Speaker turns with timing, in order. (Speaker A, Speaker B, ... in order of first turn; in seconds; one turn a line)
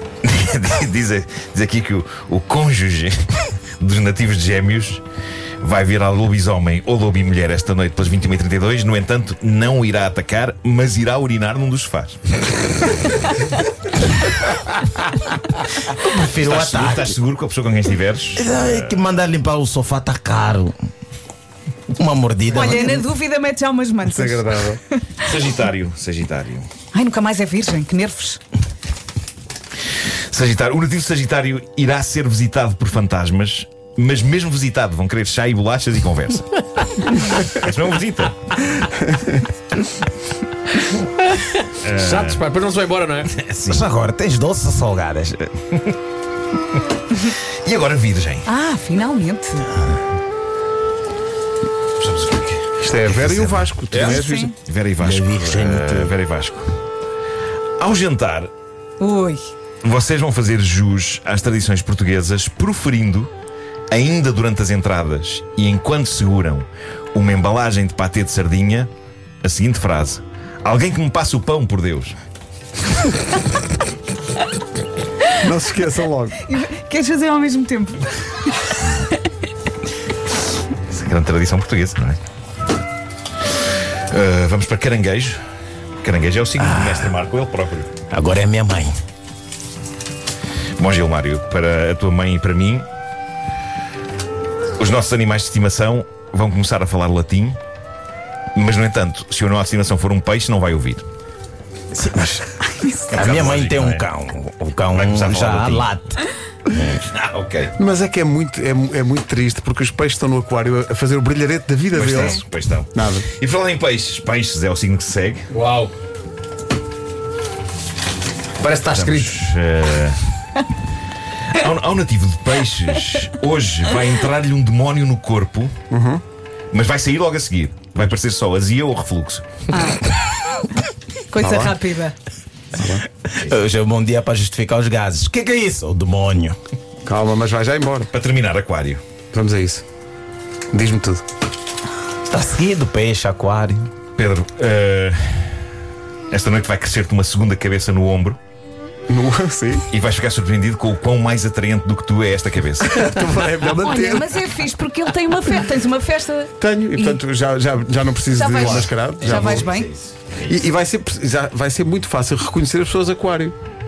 Speaker A: 0.2-5.0
Speaker A: 5.6-12.2
Speaker B: 15.9-17.1
Speaker A: 16.4-19.0
Speaker B: 18.4-20.8
Speaker B: 21.9-23.1
Speaker C: 22.5-25.4
Speaker D: 24.0-24.8
Speaker A: 25.2-26.7
Speaker C: 26.9-28.4
Speaker A: 30.3-38.7
Speaker D: 39.1-39.4
Speaker E: 41.3-43.3
Speaker A: 41.8-42.4
Speaker A: 43.3-43.9
Speaker B: 43.7-45.7
Speaker A: 47.6-48.5
Speaker C: 48.5-49.8
Speaker A: 52.0-56.7
Speaker D: 52.8-54.5
Speaker C: 54.0-54.5
Speaker B: 55.0-56.1
Speaker A: 57.8-58.5
Speaker C: 59.0-59.5
Speaker A: 59.8-63.3
Speaker A: 63.9-68.9
Speaker A: 69.4-72.2
Speaker D: 75.4-76.4
Speaker C: 76.5-79.2
Speaker A: 80.9-82.2
Speaker A: 84.1-85.4
Speaker A: 86.0-87.9
Speaker B: 86.6-87.2
Speaker B: 88.1-89.0
Speaker A: 90.8-92.9
Speaker A: 94.8-97.6
Speaker A: 98.5-101.0
Speaker B: 101.9-102.5
Speaker C: 102.6-103.2
Speaker A: 103.1-104.1
Speaker B: 103.1-107.0
Speaker A: 104.9-105.9
Speaker A: 107.0-107.7
Speaker D: 107.8-112.4
Speaker A: 111.9-115.5
Speaker D: 112.9-113.3
Speaker E: 115.5-115.9
Speaker E: 118.6-119.4
Speaker A: 118.8-120.2
Speaker A: 121.5-125.7
Speaker D: 125.9-126.2
Speaker A: 126.7-129.5
Speaker C: 129.7-130.1
Speaker C: 131.3-132.2
Speaker D: 131.4-131.8
Speaker D: 132.7-133.1
Speaker B: 133.4-136.6
Speaker D: 137.0-138.1
Speaker A: 138.1-139.0
Speaker D: 139.3-139.8
Speaker D: 140.7-141.2
Speaker B: 142.3-143.9
Speaker A: 144.2-145.6
Speaker A: 146.3-148.4
Speaker D: 149.1-149.8
Speaker A: 149.9-153.2
Speaker D: 152.8-154.4
Speaker C: 153.8-157.2
Speaker D: 156.6-159.7
Speaker C: 158.3-159.9
Speaker A: 158.5-160.6
Speaker D: 160.5-163.6